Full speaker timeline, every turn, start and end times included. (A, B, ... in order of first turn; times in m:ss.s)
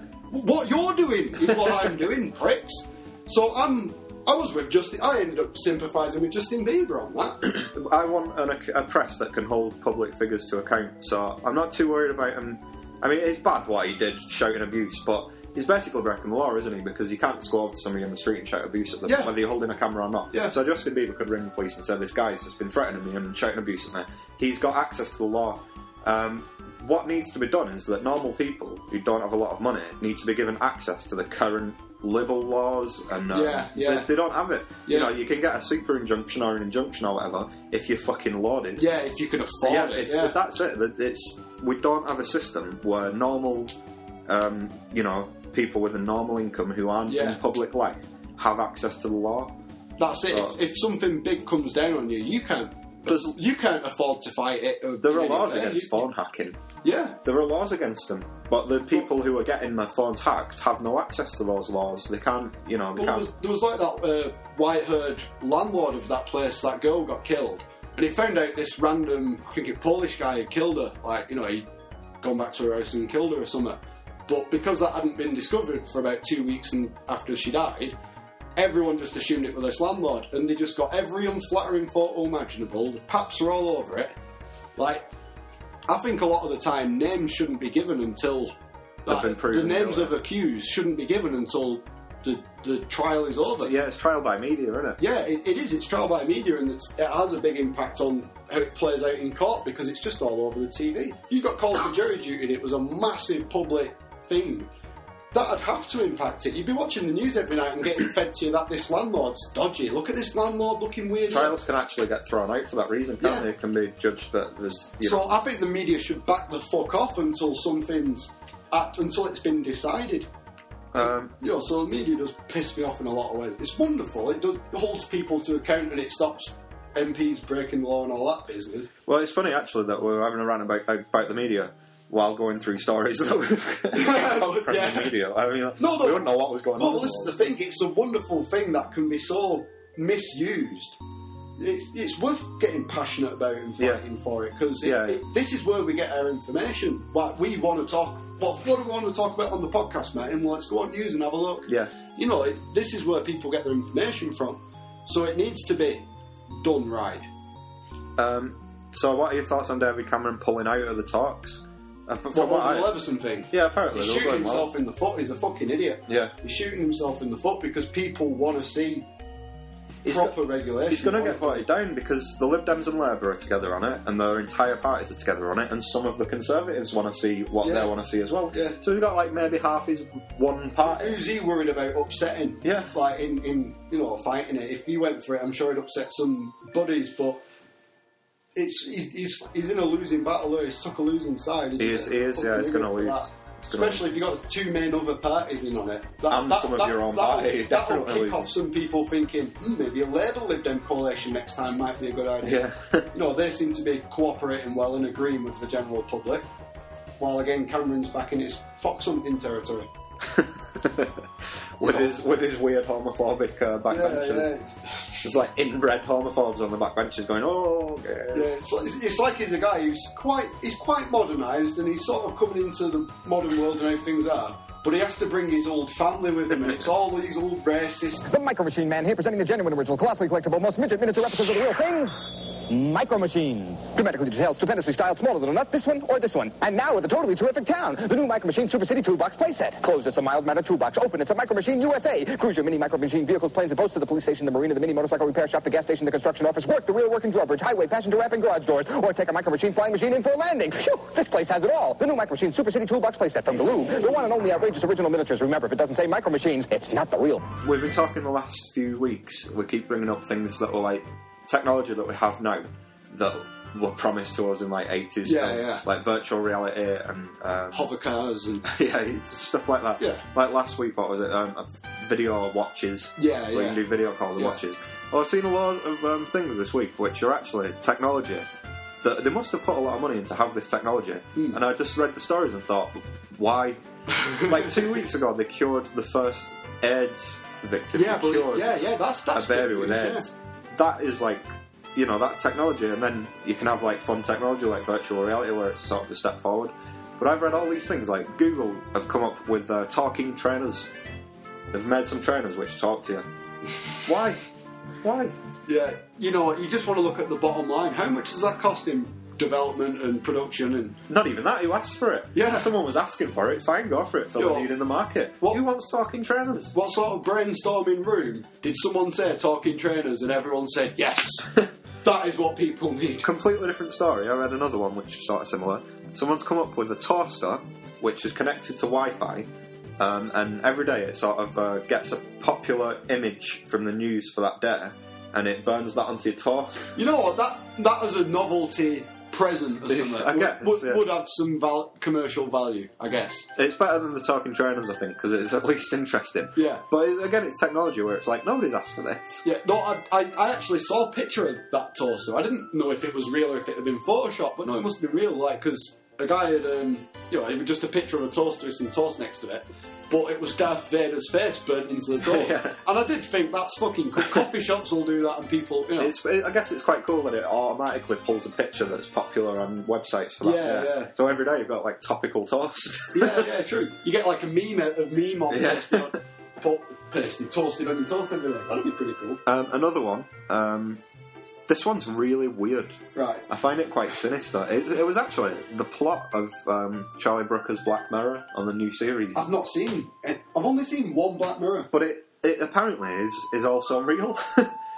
0:00.3-0:07.4 A
0:07.4-0:38.9 B
0:19.0-0:19.3 A
0:33.3-0:34.1 A
0:34.8-0:35.1 A
0:38.8-0:40.4 A
0:39.6-0:43.7 B
0:44.3-0:49.6 B
0:47.1-0:47.4 A
0:50.0-0:56.1 A
0:50.3-0:50.6 B
0:53.1-0:53.4 B
0:55.0-0:56.6 B
0:56.8-0:57.2 A
0:57.2-1:03.3 B
1:03.0-1:11.6 A
1:12.2-1:18.0 A
1:18.6-1:24.1 A
1:24.8-1:25.1 A
1:25.9-1:28.5 A
1:29.0-1:33.7 A
1:29.0-1:30.2 B
1:33.4-1:35.0 B
1:35.0-1:44.7 A
1:45.3-1:51.6 A
1:51.3-1:55.3 B
1:53.2-1:53.5 A
1:55.0-2:00.3 A
2:00.9-2:01.3 B
2:01.0-2:08.9 A
2:09.0-2:17.4 B
2:13.9-2:15.1 A
2:15.8-2:21.0 A
2:21.6-2:37.3 A
2:24.8-2:25.2 B
2:31.7-2:31.9 B
2:38.2-2:43.0 B
2:42.3-2:49.0 A
2:43.5-2:44.7 B
2:46.1-2:46.3 B
2:50.0-3:01.2 B
2:50.0-2:51.7 A
2:57.6-2:57.9 A
2:58.5-2:58.8 A
3:00.8-3:07.4 A
3:02.6-3:02.9 B
3:08.5-3:26.5 A
3:11.8-3:14.0 B
3:16.3-3:18.5 B
3:22.4-3:23.1 B
3:27.2-3:29.9 A
3:30.3-3:31.3 B
3:31.8-3:34.5 B
3:31.8-3:32.1 A
3:33.9-3:35.2 A
3:35.2-3:38.6 B
3:38.3-3:48.2 A
3:48.3-4:17.5 C
4:17.6-4:27.9 B
4:25.2-4:25.8 A
4:27.7-4:28.7 A
4:28.6-4:38.5 B
4:30.0-4:30.2 A
4:33.2-4:34.6 A
4:39.0-4:43.8 B
4:41.3-4:41.6 A
4:44.1-4:44.8 A
4:44.3-4:48.7 B
4:47.9-4:50.3 A
4:49.3-5:00.9 B
5:01.7-5:03.3 B
5:04.0-5:04.4 B
5:05.0-5:05.3 B
5:05.7-5:11.0 A
5:11.1-5:16.7 B
5:12.3-5:12.7 A
5:14.4-5:14.7 A
5:16.7-5:23.3 A
5:23.2-5:36.9 B
5:36.9-5:43.5 A
5:39.9-5:41.0 B
5:43.6-5:49.4 B
5:46.5-5:46.8 A
5:49.4-6:06.1 A
6:02.2-6:02.8 B
6:06.0-6:13.5 B
6:10.4-6:11.1 A
6:13.1-6:19.4 A
6:15.5-6:16.2 B
6:19.4-6:21.0 B
6:21.7-6:29.5 B
6:23.1-6:23.4 A
6:29.3-6:31.9 A
6:31.9-6:34.7 B